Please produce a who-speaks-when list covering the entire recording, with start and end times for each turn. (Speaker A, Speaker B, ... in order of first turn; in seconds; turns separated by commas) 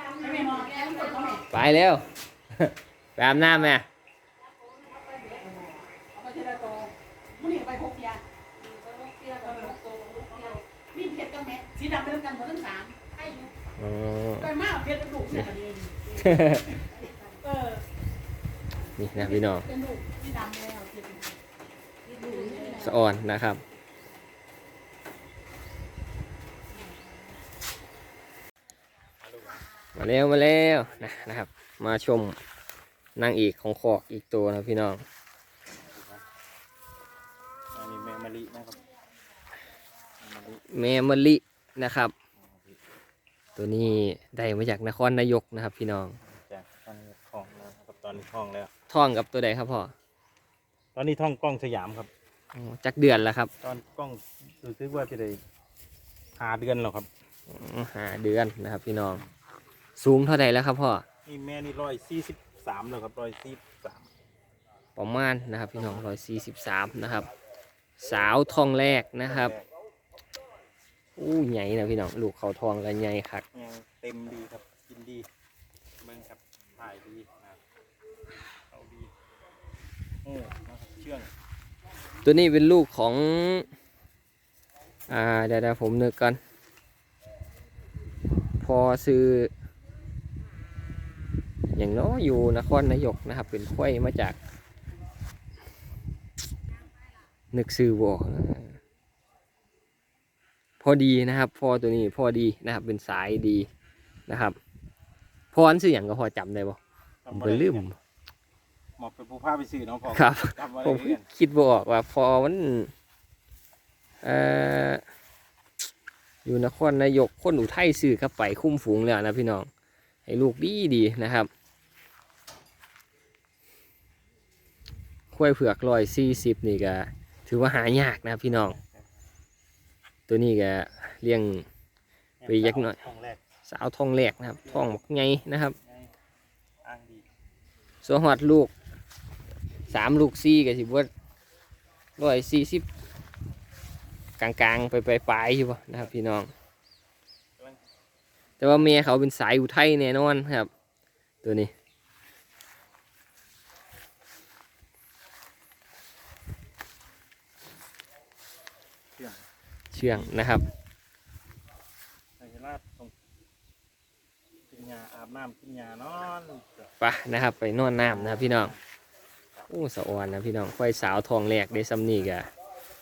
Speaker A: 0.1-1.4, Speaker B: 1.5-3.9, Speaker A: 5.1-6.9, Speaker A: 7.5-8.2, Speaker A: 9.4-13.5, Speaker B: 13.8-14.6, Speaker A: 14.6-16.0, Speaker B: 16.2-16.8, Speaker B: 19.0-19.7, Speaker A: 19.8-21.2, Speaker A: 22.3-22.8, Speaker B: 22.8-23.6, Speaker C: 29.2-29.6, Speaker B: 29.9-32.4, Speaker C: 30.9-31.3, Speaker B: 33.1-35.0, Speaker C: 35.9-36.2, Speaker C: 37.7-38.8, Speaker C: 40.2-40.6, Speaker B: 40.7-42.1, Speaker C: 42.4-42.8, Speaker B: 43.6-46.1, Speaker C: 46.2-48.7, Speaker B: 48.9-49.9, Speaker C: 50.9-52.1, Speaker B: 52.5-53.5, Speaker C: 53.6-55.4, Speaker C: 56.4-57.1, Speaker B: 57.5-59.2, Speaker B: 60.0-61.0, Speaker C: 61.2-64.1, Speaker B: 65.0-67.3, Speaker B: 68.0-69.5, Speaker C: 69.2-69.7, Speaker B: 71.2-73.4, Speaker C: 73.5-75.2, Speaker C: 76.0-77.6, Speaker C: 78.7-79.1, Speaker C: 80.2-81.3, Speaker B: 82.2-83.7, Speaker B: 85.1-86.4, Speaker B: 88.6-89.5, Speaker B: 91.7-94.4, Speaker B: 97.5-98.8, Speaker B: 100.8-103.7, Speaker B: 104.3-104.6, Speaker B: 105.5-106.8, Speaker C: 107.2-107.9, Speaker B: 107.3-108.0, Speaker C: 109.0-111.2, Speaker B: 110.1-112.9, Speaker B: 114.2-115.0, Speaker B: 116.4-119.7, Speaker B: 120.3-121.5, Speaker B: 125.3-128.8, Speaker C: 128.5-129.2, Speaker B: 130.3-131.7, Speaker C: 132.4-133.4, Speaker B: 132.5-133.0, Speaker B: 133.7-135.8, Speaker C: 134.6-134.9, Speaker C: 135.8-136.1, Speaker C: 136.8-137.2, Speaker B: 138.0-138.7, Speaker B: 139.9-141.1, Speaker B: 142.2-142.9, Speaker B: 144.4-146.5, Speaker B: 148.6-150.7, Speaker B: 151.4-151.7, Speaker C: 159.2-159.4, Speaker B: 159.9-160.6, Speaker C: 160.1-160.3, Speaker C: 162.4-163.1, Speaker C: 164.7-166.9, Speaker B: 167.0-168.7, Speaker C: 168.0-168.8, Speaker B: 169.7-172.5